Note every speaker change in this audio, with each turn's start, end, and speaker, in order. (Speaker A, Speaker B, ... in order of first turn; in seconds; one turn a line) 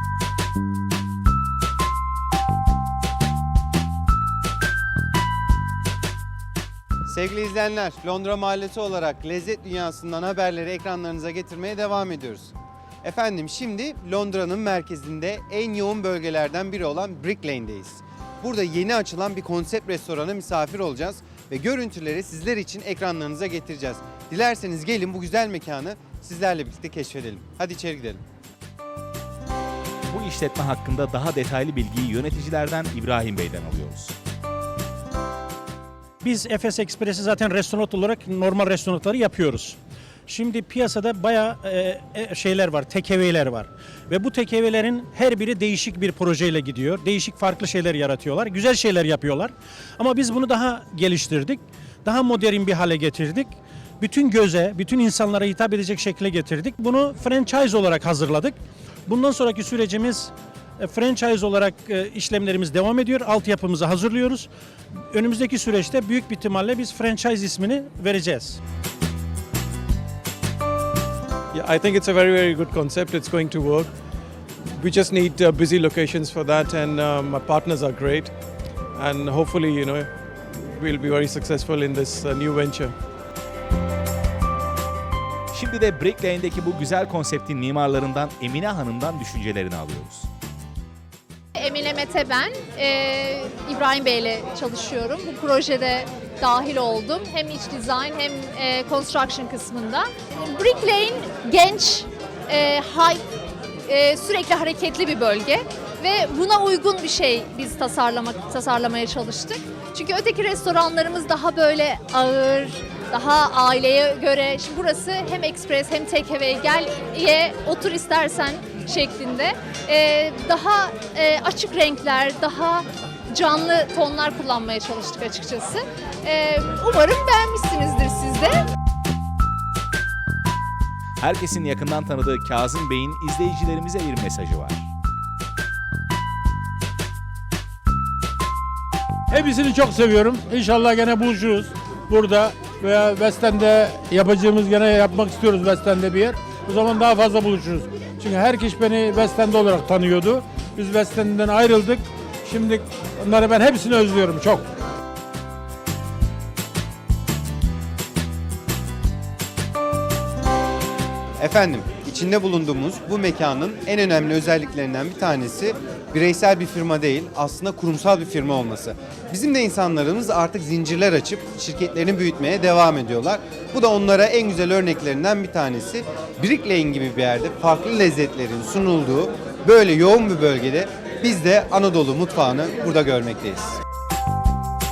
Speaker A: 7.1-12.5
Speaker A: 13.0-28.2
Speaker B: 30.1-34.1
Speaker C: 36.2-64.5
Speaker C: 65.1-68.6
Speaker D: 71.5-73.9
Speaker D: 74.8-78.3
Speaker D: 78.9-80.1
Speaker D: 80.8-82.9
Speaker B: 85.5-90.3
Speaker E: 91.6-103.2
Speaker E: 103.9-128.6
Speaker B: 131.2-134.8
Speaker F: 139.3-154.6
Speaker A: 161.4-183.8